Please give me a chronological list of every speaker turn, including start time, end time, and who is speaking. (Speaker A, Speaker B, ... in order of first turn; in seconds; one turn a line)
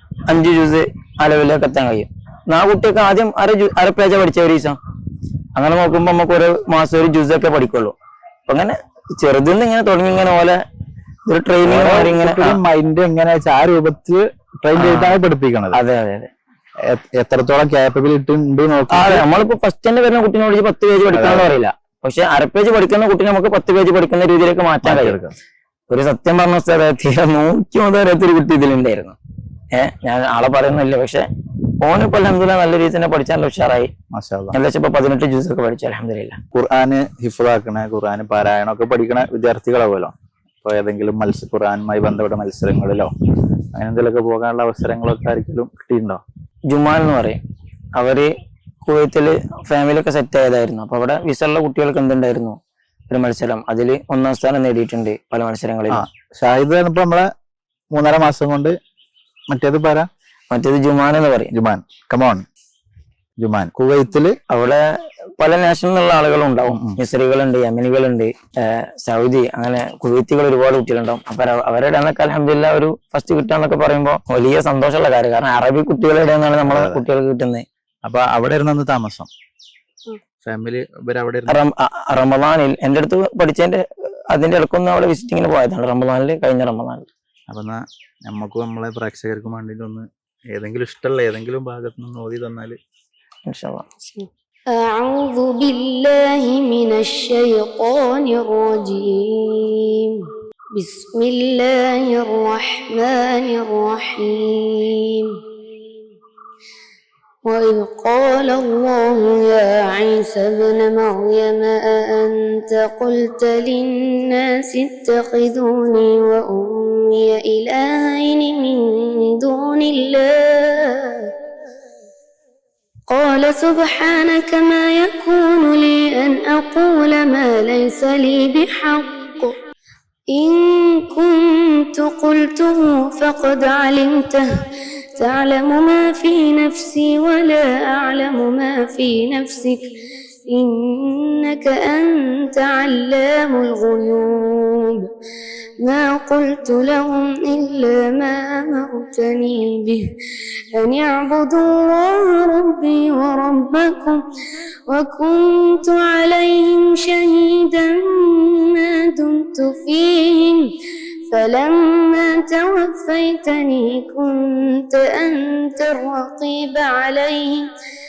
Speaker A: 0.3-4.8
Speaker A: 5.5-7.9
Speaker A: 8.5-10.6
Speaker A: 11.3-12.6
Speaker B: 11.6-15.8
Speaker A: 14.8-15.2
Speaker A: 15.7-16.3
Speaker B: 16.9-19.3
Speaker A: 18.9-25.2
Speaker B: 21.1-21.5
Speaker B: 24.8-25.4
Speaker A: 25.9-29.1
Speaker A: 29.7-31.2
Speaker A: 31.8-33.9
Speaker B: 34.1-34.6
Speaker A: 34.5-36.4
Speaker B: 36.5-43.1
Speaker B: 43.7-46.2
Speaker A: 46.7-47.4
Speaker A: 48.0-48.3
Speaker A: 48.8-52.6
Speaker A: 53.1-56.0
Speaker B: 55.9-57.2
Speaker B: 57.9-58.7
Speaker B: 59.5-60.1
Speaker A: 60.5-61.5
Speaker B: 61.5-62.4
Speaker B: 63.4-64.3
Speaker A: 64.5-64.8
Speaker A: 65.4-77.6
Speaker B: 66.7-67.0
Speaker B: 76.6-77.0
Speaker B: 78.0-79.3
Speaker B: 80.4-81.6
Speaker A: 81.5-87.1
Speaker B: 87.5-92.8
Speaker A: 93.5-93.9
Speaker C: 94.1-100.2
Speaker C: 100.8-105.3
Speaker C: 107.5-121.2
Speaker C: 123.1-129.5
Speaker C: 130.3-134.5
Speaker C: 135.2-139.8
Speaker C: 140.5-145.1
Speaker C: 145.8-150.0
Speaker C: 150.7-154.2
Speaker C: 154.9-160.7
Speaker C: 161.3-167.7